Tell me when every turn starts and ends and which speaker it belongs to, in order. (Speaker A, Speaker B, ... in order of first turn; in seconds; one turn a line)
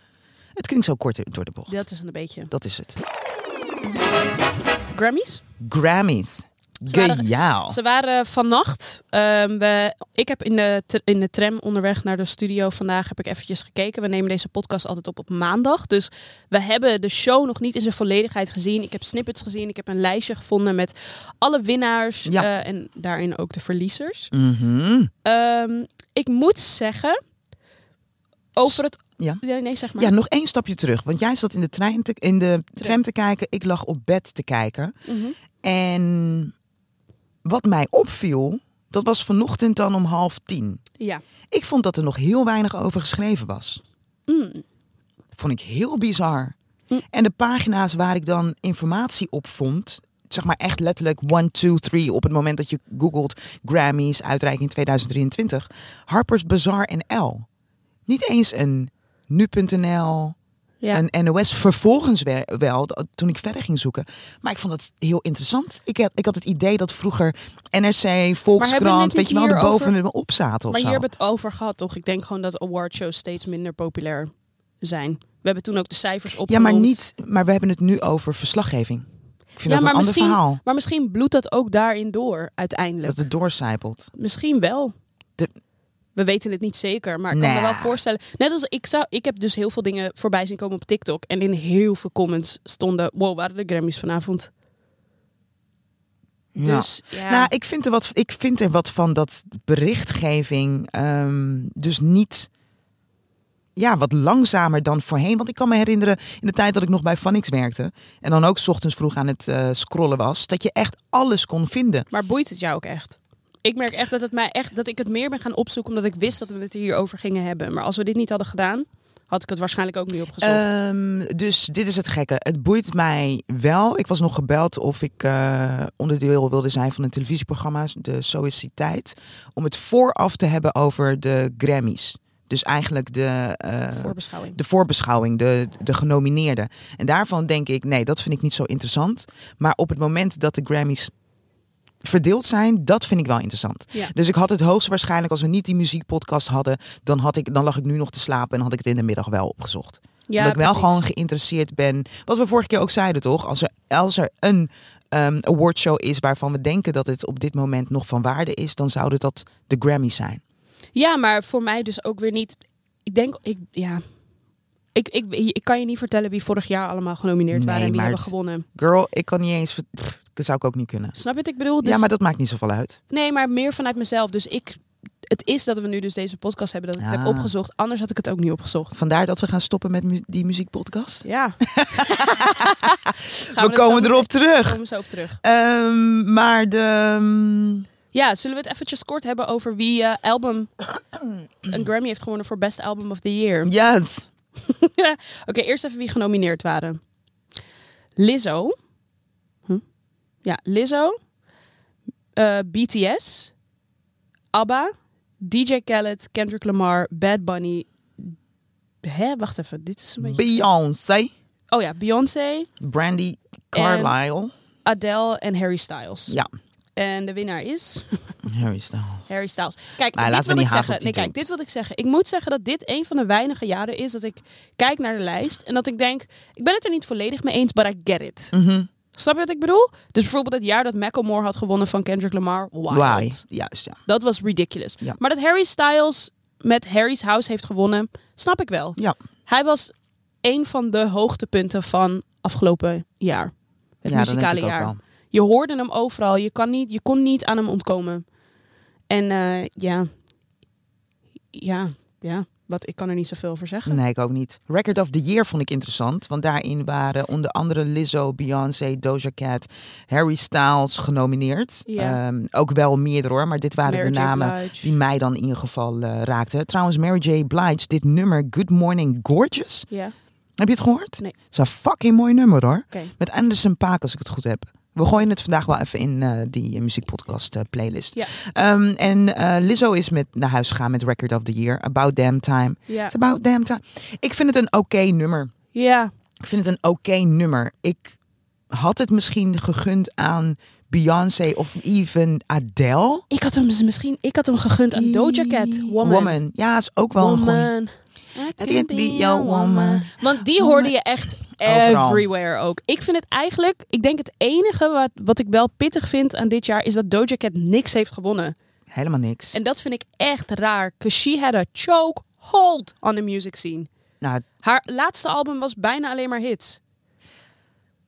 Speaker A: 0.6-1.9
Speaker B: 1.7-2.5
Speaker A: 2.5-3.0
Speaker B: 4.9-5.4
Speaker A: 5.6-7.8
Speaker B: 6.9-24.3
Speaker A: 24.3-25.1
Speaker B: 25.2-27.2
Speaker B: 28.6-30.1
Speaker A: 28.6-29.4
Speaker A: 30.0-35.0
Speaker B: 35.1-35.4
Speaker A: 35.6-36.5
Speaker A: 37.4-40.8
Speaker A: 41.5-43.8
Speaker B: 44.3-44.6
Speaker A: 45.4-46.5
Speaker A: 47.1-57.5
Speaker A: 58.1-60.4
Speaker A: 60.9-71.0
Speaker B: 68.6-70.0
Speaker B: 70.7-77.0
Speaker A: 76.5-79.1
Speaker A: 79.6-80.6
Speaker B: 79.7-83.2
Speaker A: 83.0-84.1
Speaker B: 84.2-85.0
Speaker B: 86.2-94.5
Speaker A: 87.3-88.0
Speaker A: 96.5-102.5
Speaker B: 96.6-97.5
Speaker A: 103.8-112.1
Speaker B: 112.1-120.7
Speaker A: 120.4-141.1
Speaker B: 133.9-134.6
Speaker A: 142.0-160.4
Speaker B: 150.3-151.0
Speaker B: 160.9-164.0
Speaker B: 164.9-168.7
Speaker A: 167.5-171.2
Speaker B: 171.2-172.1
Speaker A: 171.8-173.0
Speaker B: 173.1-178.9
Speaker A: 177.0-177.5
Speaker A: 178.9-184.8
Speaker B: 181.2-183.0
Speaker B: 183.5-185.4
Speaker A: 185.4-187.9
Speaker B: 188.1-190.7
Speaker B: 191.7-193.7
Speaker A: 193.7-194.3
Speaker B: 194.6-197.0
Speaker B: 198.2-198.8
Speaker B: 200.4-201.2
Speaker B: 202.4-203.5
Speaker B: 204.5-208.3
Speaker B: 209.0-210.4
Speaker A: 210.2-211.3
Speaker B: 211.7-212.7
Speaker A: 212.8-214.5
Speaker B: 213.7-214.2
Speaker B: 214.8-216.4
Speaker B: 217.0-218.3
Speaker A: 218.4-219.3
Speaker B: 219.3-228.5
Speaker A: 220.2-221.4
Speaker A: 228.5-228.9
Speaker B: 229.1-233.4
Speaker A: 232.9-234.0
Speaker B: 234.1-239.9
Speaker B: 240.4-248.2
Speaker A: 244.1-245.0
Speaker B: 249.1-250.1
Speaker B: 251.5-254.0
Speaker A: 253.9-269.9
Speaker B: 261.9-262.2
Speaker B: 263.8-264.9
Speaker A: 270.6-285.5
Speaker B: 282.9-283.1
Speaker B: 285.7-286.1
Speaker A: 286.4-288.2
Speaker A: 288.7-293.2
Speaker B: 293.3-296.4
Speaker A: 294.9-297.7
Speaker B: 297.2-308.5
Speaker A: 298.6-300.9
Speaker A: 301.5-302.3
Speaker A: 308.9-309.6
Speaker B: 309.5-313.9
Speaker B: 314.6-316.8